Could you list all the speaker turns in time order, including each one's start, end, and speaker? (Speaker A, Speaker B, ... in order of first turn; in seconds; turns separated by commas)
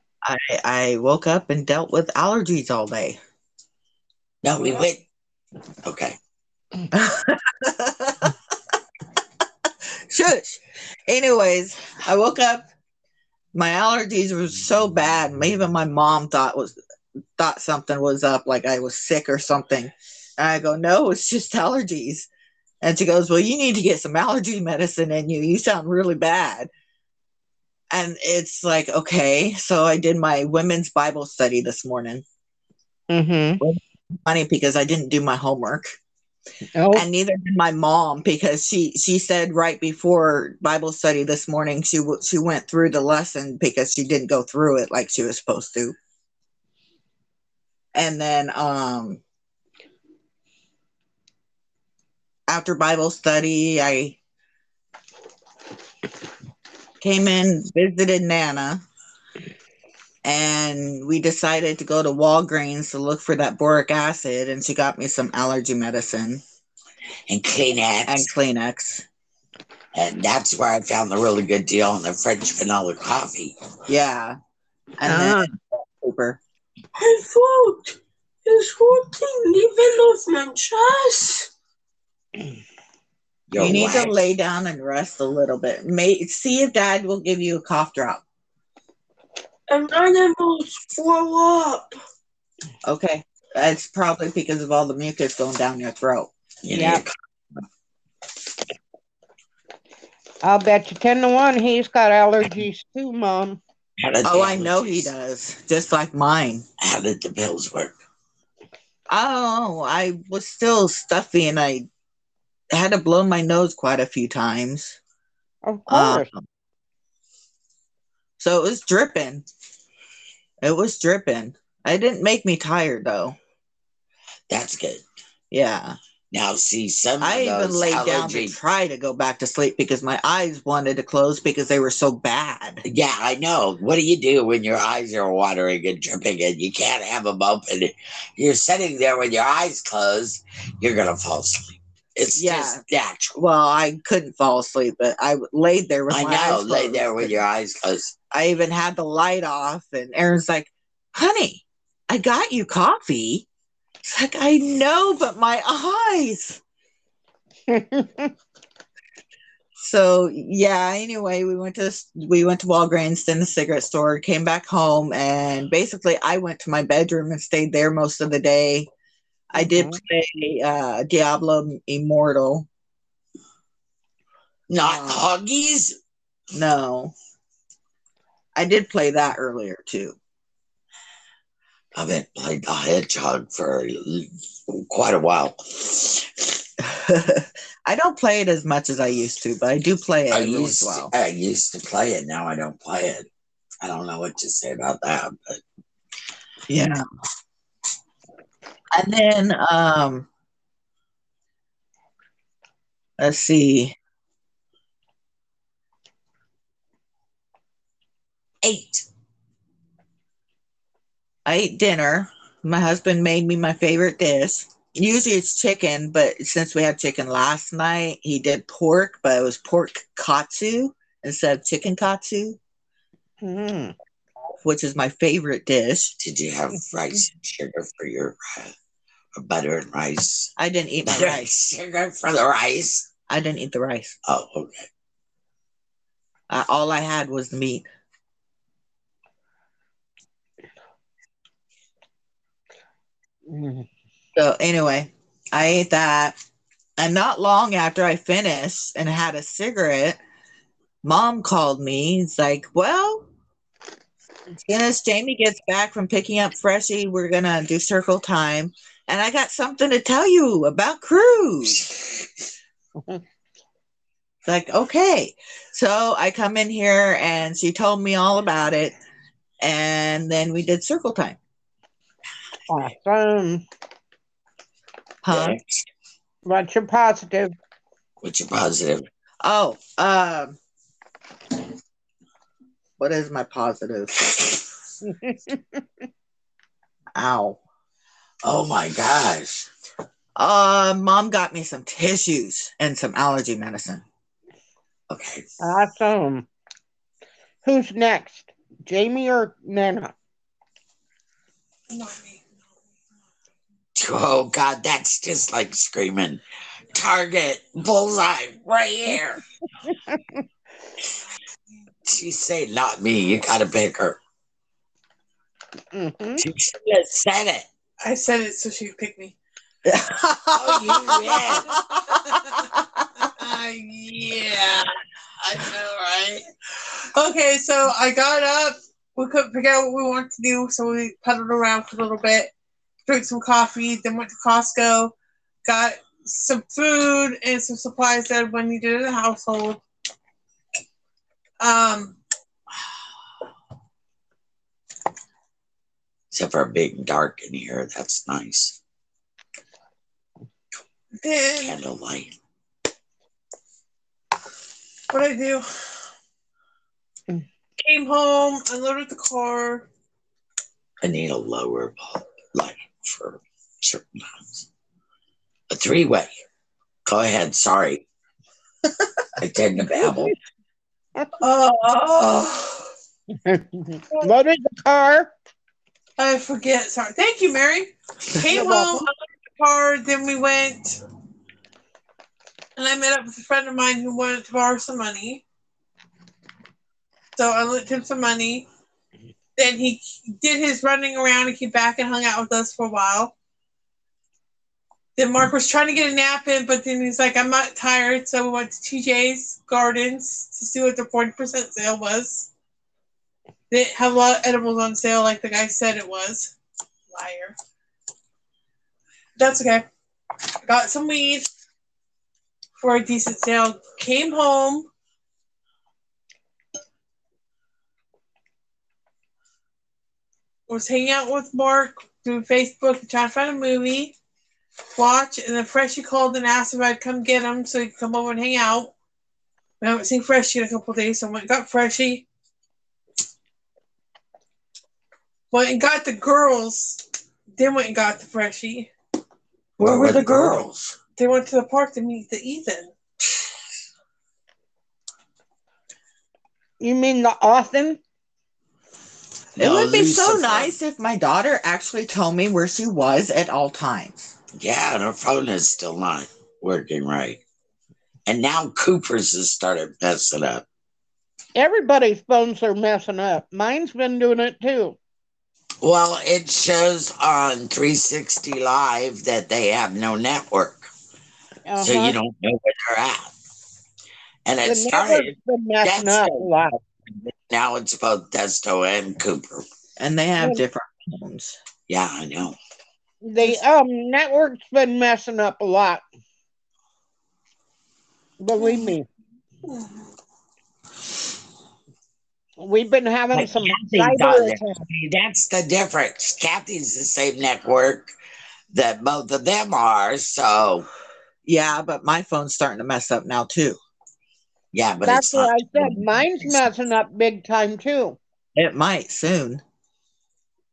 Speaker A: 0.2-3.2, Speaker B: 4.4-5.1, Speaker B: 5.8-6.2, Speaker A: 6.9-8.3, Speaker A: 10.1-12.7, Speaker A: 13.5-16.8, Speaker A: 17.4-22.3, Speaker A: 22.8-26.7, Speaker A: 27.9-32.2, Speaker C: 33.1-33.6, Speaker A: 33.6-36.0, Speaker C: 36.8-37.1, Speaker A: 36.9-46.0, Speaker A: 47.9-49.2, Speaker A: 52.5-54.2, Speaker A: 57.0-58.8, Speaker A: 60.2-66.4, Speaker B: 67.3-68.3, Speaker A: 68.1-69.0, Speaker B: 70.0-73.5, Speaker A: 73.9-74.4, Speaker A: 75.0-76.4, Speaker C: 75.0-75.5, Speaker D: 77.0-81.5, Speaker B: 83.5-84.2, Speaker A: 83.5-88.2, Speaker D: 89.7-92.0, Speaker A: 92.8-96.3, Speaker B: 96.6-97.1, Speaker C: 96.7-97.0, Speaker C: 100.4-103.6, Speaker B: 104.0-105.1, Speaker A: 104.2-106.7, Speaker B: 106.8-108.0, Speaker A: 109.1-111.9, Speaker A: 112.7-115.0, Speaker C: 115.7-116.3, Speaker A: 115.9-116.5, Speaker A: 118.4-119.5, Speaker A: 120.6-123.4, Speaker B: 124.5-125.0, Speaker A: 125.5-126.0, Speaker B: 126.3-128.6, Speaker A: 127.2-132.8, Speaker B: 132.9-143.3, Speaker A: 142.3-142.8, Speaker A: 143.3-147.4, Speaker B: 146.1-148.1, Speaker A: 148.3-153.5, Speaker A: 154.0-156.6, Speaker C: 157.7-158.3, Speaker A: 159.8-168.9, Speaker A: 169.5-172.7, Speaker C: 169.6-170.0, Speaker B: 174.7-176.0, Speaker A: 174.9-175.2, Speaker A: 176.5-177.1, Speaker A: 178.6-180.2, Speaker B: 181.9-186.5, Speaker A: 186.8-191.1, Speaker B: 190.3-193.3, Speaker B: 193.8-195.6, Speaker A: 196.7-197.0, Speaker A: 198.9-200.3, Speaker A: 203.2-204.0, Speaker B: 208.6-209.1, Speaker A: 211.4-222.6, Speaker C: 223.4-223.9, Speaker A: 224.6-226.2, Speaker B: 226.2-228.7, Speaker B: 229.3-230.5, Speaker A: 230.6-231.5, Speaker B: 231.1-233.1, Speaker A: 233.3-234.2, Speaker B: 234.3-234.9, Speaker A: 236.5-237.9, Speaker C: 243.5-243.9, Speaker A: 244.3-246.4, Speaker A: 247.0-250.2, Speaker A: 251.0-253.3, Speaker A: 254.6-261.9, Speaker A: 264.4-269.0, Speaker A: 269.6-271.4, Speaker C: 272.7-273.6, Speaker A: 275.2-275.6, Speaker B: 275.3-275.9, Speaker C: 276.4-277.6, Speaker B: 278.2-279.1, Speaker A: 279.4-280.6, Speaker A: 283.0-284.6, Speaker C: 285.1-285.8, Speaker A: 287.1-287.6, Speaker B: 288.4-289.7, Speaker A: 290.4-294.0, Speaker B: 295.1-295.4, Speaker C: 295.6-296.5, Speaker C: 297.6-300.1, Speaker E: 301.9-302.7, Speaker B: 304.0-306.4, Speaker B: 306.9-309.4, Speaker C: 309.9-310.4, Speaker B: 312.1-314.2, Speaker C: 315.9-316.4, Speaker B: 316.4-317.7, Speaker E: 318.0-319.4, Speaker A: 319.9-321.8, Speaker B: 320.6-321.7, Speaker E: 320.9-322.5, Speaker E: 323.2-324.9, Speaker E: 325.4-326.5, Speaker E: 327.1-332.5, Speaker E: 333.1-335.1, Speaker E: 335.6-339.8, Speaker E: 341.6-342.2, Speaker B: 346.3-348.8, Speaker E: 351.2-351.8, Speaker B: 351.6-352.4, Speaker E: 355.1-355.6, Speaker E: 357.8-359.9, Speaker B: 361.0-364.7, Speaker B: 365.7-366.3, Speaker B: 367.1-368.1, Speaker B: 369.4-370.3, Speaker E: 371.4-372.7, Speaker C: 373.4-375.3, Speaker E: 376.2-381.0, Speaker C: 378.5-379.1, Speaker E: 382.8-385.4, Speaker E: 387.4-388.7, Speaker E: 389.6-393.3, Speaker E: 395.2-402.5, Speaker E: 403.7-406.5, Speaker E: 407.1-407.6, Speaker E: 409.4-409.9, Speaker E: 410.6-411.5, Speaker E: 412.8-414.9, Speaker E: 420.7-424.1, Speaker E: 425.0-428.9, Speaker E: 429.8-432.3, Speaker E: 435.5-437.0, Speaker E: 437.6-438.9, Speaker B: 439.8-441.0, Speaker E: 439.8-440.6, Speaker E: 441.2-442.9, Speaker C: 446.8-448.0, Speaker B: 449.6-450.7, Speaker A: 449.6-454.3, Speaker B: 454.6-457.4, Speaker B: 458.3-460.6, Speaker C: 461.6-465.0, Speaker B: 465.8-470.9, Speaker C: 471.7-472.2, Speaker B: 471.8-473.3, Speaker B: 474.5-476.5, Speaker C: 474.6-476.8, Speaker B: 477.3-479.6, Speaker A: 480.0-481.6, Speaker B: 481.9-482.6, Speaker C: 483.2-486.0, Speaker C: 488.4-489.1, Speaker E: 488.6-488.9, Speaker E: 489.7-489.9, Speaker C: 492.6-494.8, Speaker B: 493.3-498.1, Speaker B: 498.7-500.9, Speaker A: 501.4-503.8, Speaker B: 504.7-506.6, Speaker C: 505.0-508.2, Speaker A: 508.6-509.6